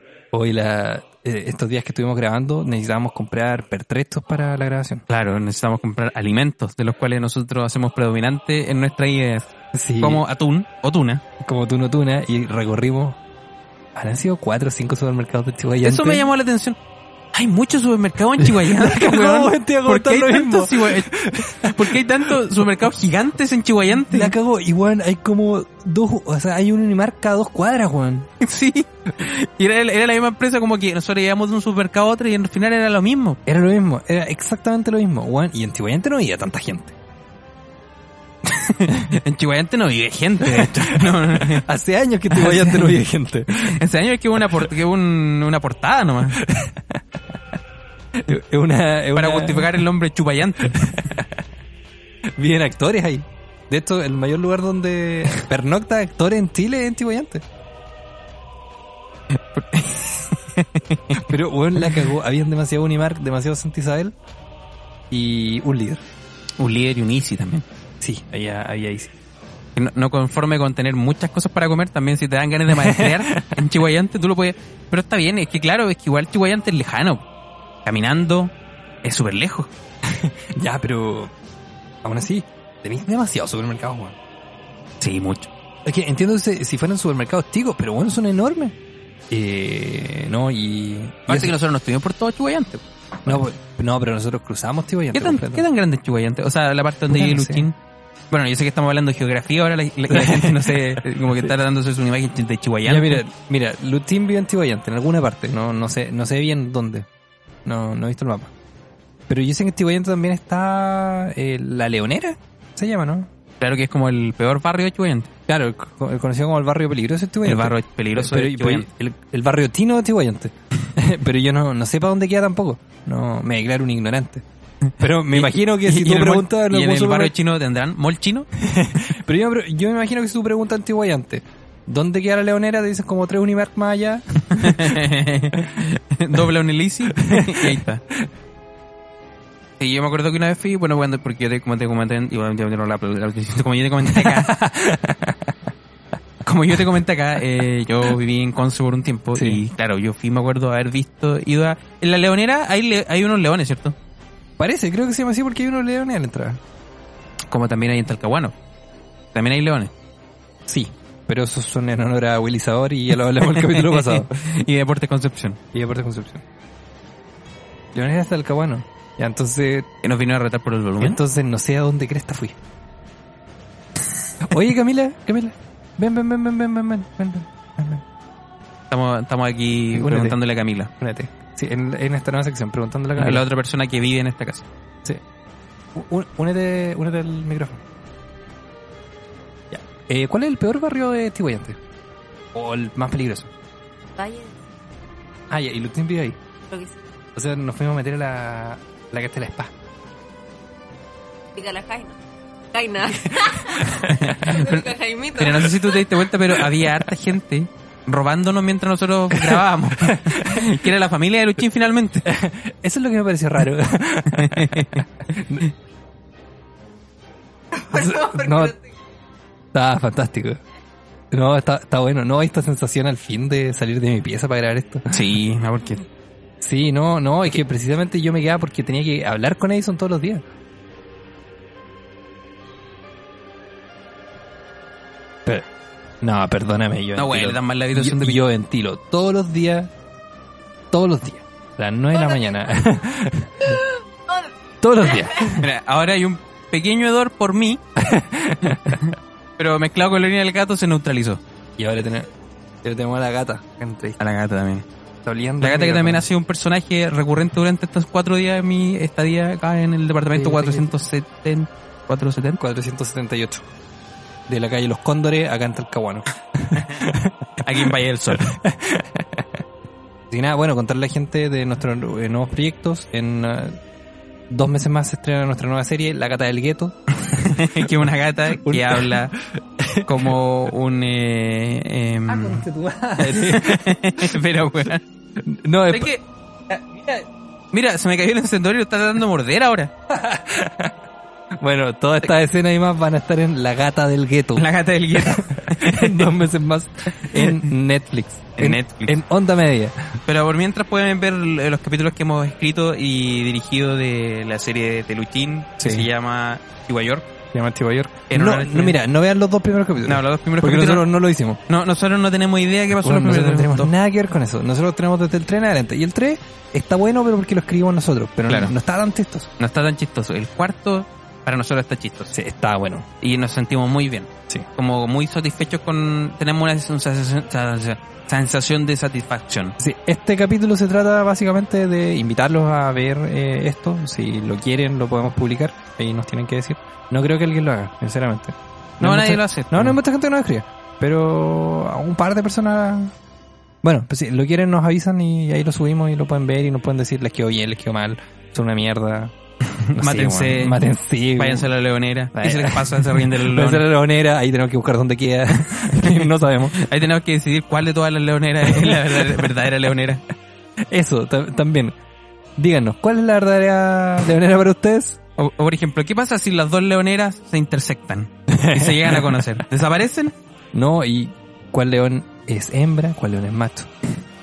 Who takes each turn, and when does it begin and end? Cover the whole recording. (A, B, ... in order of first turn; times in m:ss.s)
0:00.3-0:05.0 A
0:05.1-0:11.2 B
0:09.7-0:10.2 A
0:11.4-0:13.2 A
0:13.9-0:16.2 A
0:15.8-0:16.8 B
0:17.3-0:24.3 B
0:18.4-0:22.3 A
0:24.0-0:28.3 A
0:28.4-0:33.4 B
0:33.4-0:36.9 A
0:38.5-0:41.6 B
0:40.4-0:43.8 A
0:42.3-0:43.0 B
0:43.6-0:46.4 B
0:46.4-0:47.0 A
0:48.2-0:49.7 A
0:49.1-0:50.9 B
0:50.7-0:51.4 A
0:52.4-0:57.4 A
0:59.3-1:01.2 B
1:01.3-1:04.2 A
1:05.1-1:06.0 A
1:06.6-1:07.6 B
1:08.0-1:09.1 A
1:09.8-1:17.2 B
1:12.7-1:13.6 A
1:17.8-1:19.7 B
1:20.0-1:21.3 A
1:22.0-1:24.2 A
1:25.0-1:25.5 B
1:25.8-1:28.7 A
1:29.3-1:31.6 A
1:31.3-1:32.8 B
1:33.2-1:35.6 A
1:35.1-1:37.8 B
1:37.1-1:37.6 A
1:38.3-1:43.2 B
1:40.1-1:41.5 A
1:42.8-1:47.1 A
1:47.6-1:48.5 A
1:49.3-1:53.3 A
1:53.6-1:55.3 B
1:55.5-2:04.4 A
1:57.4-1:58.8 B
2:05.0-2:07.3 A
2:05.3-2:08.5 B
2:08.6-2:15.1 A
2:14.5-2:18.0 B
2:17.1-2:18.2 A
2:19.8-2:24.6 B
2:24.0-2:25.5 A
2:26.4-2:34.0 B
2:29.3-2:29.6 A
2:34.6-2:36.6 A
2:37.5-2:38.5 B
2:39.3-2:39.9 B
2:40.7-2:44.3 A
2:43.5-2:45.6 B
2:45.7-2:46.4 A
2:47.9-2:49.9 A
2:50.0-2:51.2 B
2:51.0-2:52.6 A
2:54.4-2:58.0 A
2:58.9-3:00.9 B
2:59.9-3:00.4 A
3:01.0-3:03.4 A
3:03.2-3:04.7 B
3:05.9-3:07.8 A
3:09.7-3:11.8 A
3:12.5-3:13.5 A
3:14.2-3:14.6 C
3:15.5-3:16.4 A
3:16.7-3:17.0 C
3:17.3-3:19.7 A
3:21.6-3:22.2 C
3:22.7-3:26.0 C
3:23.7-3:32.3 B
3:23.8-3:24.5 A
3:29.3-3:30.7 A
3:32.2-3:35.7 A
3:34.3-3:35.0 B
3:37.9-3:38.8 A
3:37.9-3:38.7 C
3:39.7-3:40.6 A
3:41.3-3:45.1 A
3:45.1-3:46.0 B
3:46.6-3:50.4 A
3:56.2-3:59.9 A
3:57.2-3:58.4 B
4:00.9-4:03.8 A
4:04.8-4:05.7 A
4:05.5-4:07.8 B
4:08.0-4:09.0 A
4:08.6-4:11.4 B
4:11.8-4:12.3 A
4:12.8-4:14.2 A
4:14.2-4:14.8 B
4:15.2-4:16.3 A
4:15.6-4:22.6 B
4:20.3-4:20.9 A
4:22.6-4:23.6 A
4:24.5-4:29.6 A
4:26.8-4:27.0 B
4:27.6-4:28.6 B
4:30.3-4:33.8 A
4:34.5-4:38.1 A
4:37.2-4:39.3 B
4:38.6-4:40.3 A
4:40.0-4:42.6 B
4:42.3-4:44.4 A
4:43.2-4:45.0 B
4:45.4-4:46.1 A
4:45.9-4:49.9 B
4:50.1-4:50.9 A
4:51.6-4:54.6 A
4:54.5-4:56.4 B
4:55.2-5:00.2 A
4:57.2-4:57.6 B
4:58.6-4:59.2 B
5:00.2-5:07.3 B
5:05.8-5:06.1 A
5:07.5-5:11.6 A
5:08.3-5:09.0 B
5:10.0-5:11.1 B
5:11.7-5:13.9 B
5:13.0-5:19.5 A
5:18.5-5:18.7 B
5:19.6-5:22.3 B
5:22.3-5:23.1 A
5:23.2-5:29.8 B
5:29.8-5:43.1 A
5:39.0-5:40.0 B
5:43.8-5:49.3 A
5:49.7-5:50.8 B
5:49.9-5:51.7 A
5:51.4-5:53.8 B
5:52.3-5:56.8 A
5:56.0-6:00.2 B
5:58.6-5:59.5 A
6:00.9-6:02.0 A
6:02.6-6:05.2 A
6:05.4-6:10.3 B
6:08.5-6:09.5 A
6:10.7-6:13.9 A